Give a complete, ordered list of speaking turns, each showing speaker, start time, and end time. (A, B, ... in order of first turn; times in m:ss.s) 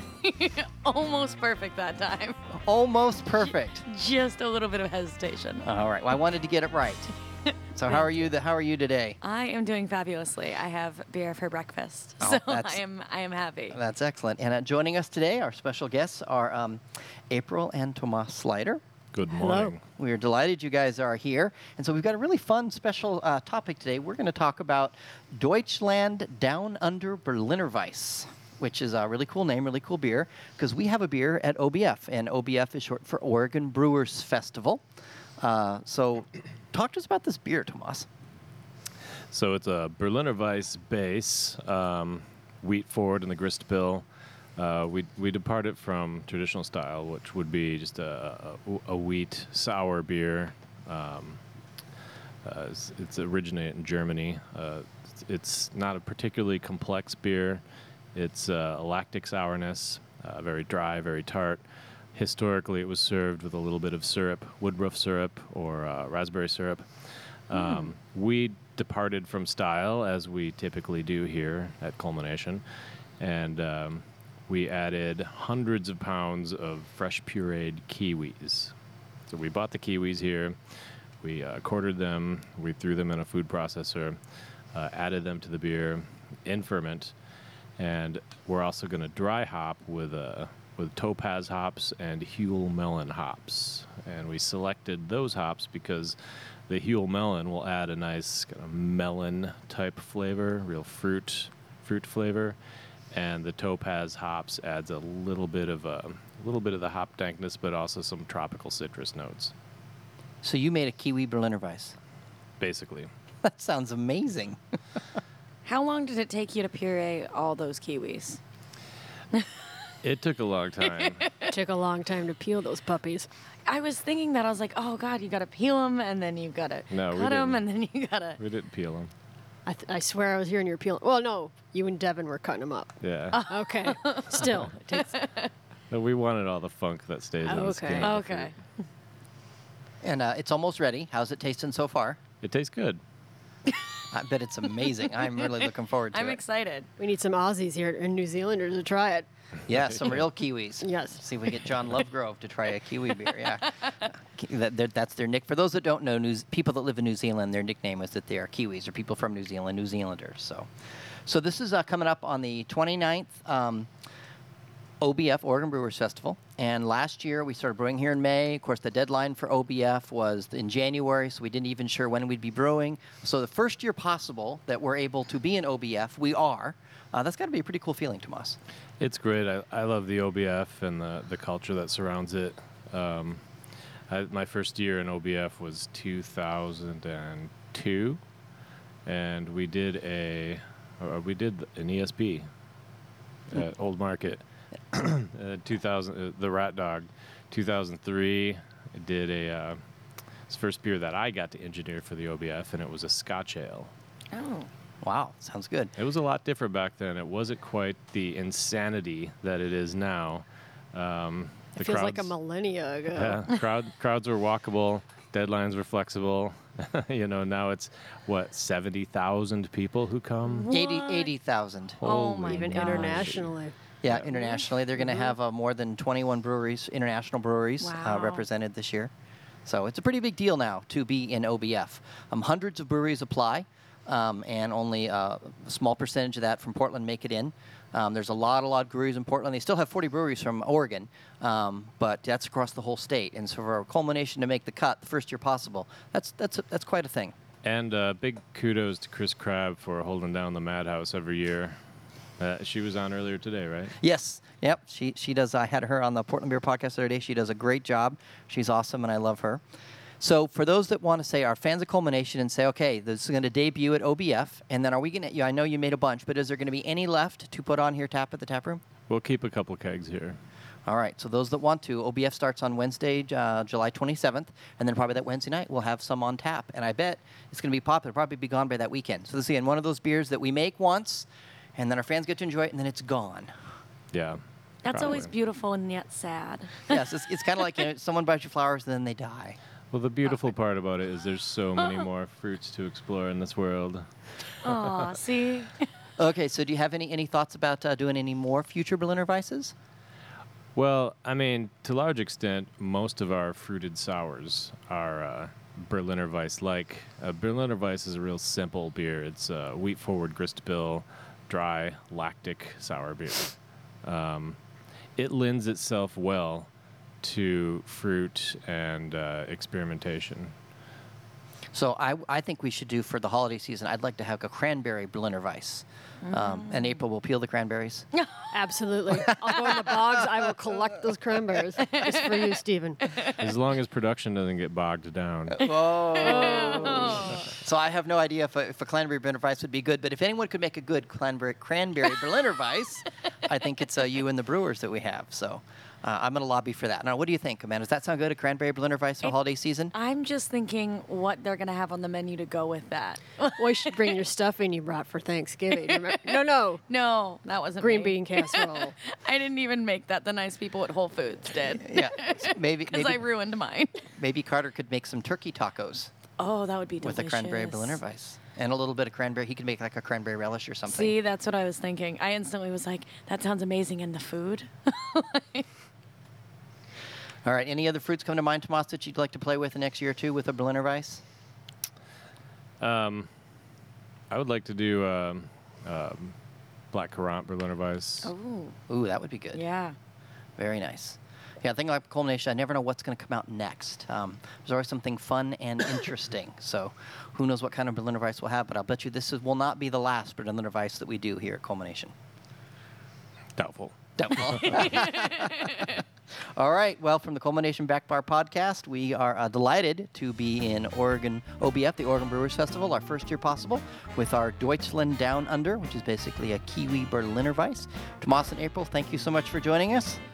0:00.2-0:02.4 A
0:02.6-0:03.8 B
0:03.4-0:05.6 A
0:05.6-0:07.1 B
0:07.7-0:09.2 B
0:07.8-0:08.1 A
0:09.2-0:13.8 A
0:12.2-0:12.8 B
0:13.7-0:18.8 B
0:19.1-0:19.8 C
0:19.3-0:19.7 D
0:19.9-0:34.8 B
0:35.4-0:38.1 B
0:39.3-0:44.0 C
0:44.6-0:51.4 C
0:52.4-0:57.6 C
0:58.1-1:01.6 C
1:02.1-1:06.8 C
1:07.5-1:12.6 C
1:07.6-1:07.8 A
1:13.2-1:18.7 C
1:19.3-1:20.6 C
1:21.2-1:24.2 C
1:24.7-1:27.1 C
1:27.8-1:36.2 C
1:36.7-1:42.6 C
1:43.1-1:49.5 C
1:50.4-1:52.0 B
1:52.6-1:53.1 C
1:53.4-1:54.6 B
1:55.6-1:58.4 A
1:59.3-1:59.6 A
2:00.0-2:01.4 C
2:01.0-2:01.5 A
2:01.5-2:03.3 D
2:03.6-2:08.4 A
2:06.9-2:07.6 C
2:08.4-2:09.1 C
2:09.6-2:15.1 D
2:13.0-2:13.5 C
2:13.3-2:15.5 A
2:15.9-2:18.5 C
2:17.4-2:18.1 D
2:17.6-2:18.5 A
2:20.0-2:22.2 B
2:22.4-2:23.0 C
2:24.1-2:26.4 B
2:25.4-2:26.9 A
2:27.0-2:29.3 D
2:29.7-2:40.7 B
2:29.7-2:30.3 C
2:30.8-2:31.2 D
2:41.2-2:43.9 B
2:45.0-2:58.6 B
2:59.0-3:03.4 C
3:04.1-3:08.2 C
3:09.0-3:12.4 C
3:13.5-3:19.8 C
3:20.5-3:23.9 C
3:24.3-3:24.7 A
3:25.0-3:25.9 B
3:26.0-3:32.3 C
3:31.8-3:33.5 D
3:33.1-3:40.7 C
3:40.4-3:41.3 A
3:40.7-3:42.1 B
3:42.0-3:43.5 C
3:42.0-3:43.2 A
3:42.0-3:43.7 D
3:44.0-3:49.1 B
3:44.5-3:45.2 A
3:47.8-3:48.4 A
3:49.6-4:07.3 B
4:07.6-4:11.8 C
4:12.4-4:13.9 C
4:14.0-4:19.6 B
4:20.2-4:28.8 B
4:29.1-4:30.4 C
4:30.8-4:43.5 B
4:44.1-4:45.3 C
4:44.8-4:47.0 A
4:46.9-4:49.6 B
4:49.9-4:54.0 C
4:54.6-4:55.8 A
4:56.2-4:59.7 B
5:00.7-5:14.6 C
5:15.2-5:16.7 C
5:17.2-5:20.5 C
5:21.7-5:28.1 B
5:26.2-5:26.9 A
5:28.2-5:28.6 A
5:28.5-5:33.1 D
5:31.8-5:33.4 A
5:33.4-5:35.6 C
5:35.5-5:49.9 B
5:35.9-5:37.4 A
5:49.9-5:54.2 A
5:53.6-5:56.8 D
5:55.7-6:04.1 A
5:57.8-5:58.9 D
6:01.8-6:03.2 B
6:04.1-6:06.1 B
6:06.4-6:08.0 A
6:07.0-6:11.1 B
6:10.8-6:15.6 A
6:17.4-6:21.2 B
6:22.8-6:23.3 C
6:24.3-6:26.3 C
6:26.9-6:28.3 C
6:28.2-6:28.8 A
6:28.9-6:29.6 B
6:29.5-6:29.9 A
6:30.6-6:42.1 B
6:43.6-6:44.8 C
6:44.2-6:46.0 B
6:45.2-6:45.8 A
6:46.5-7:00.2 B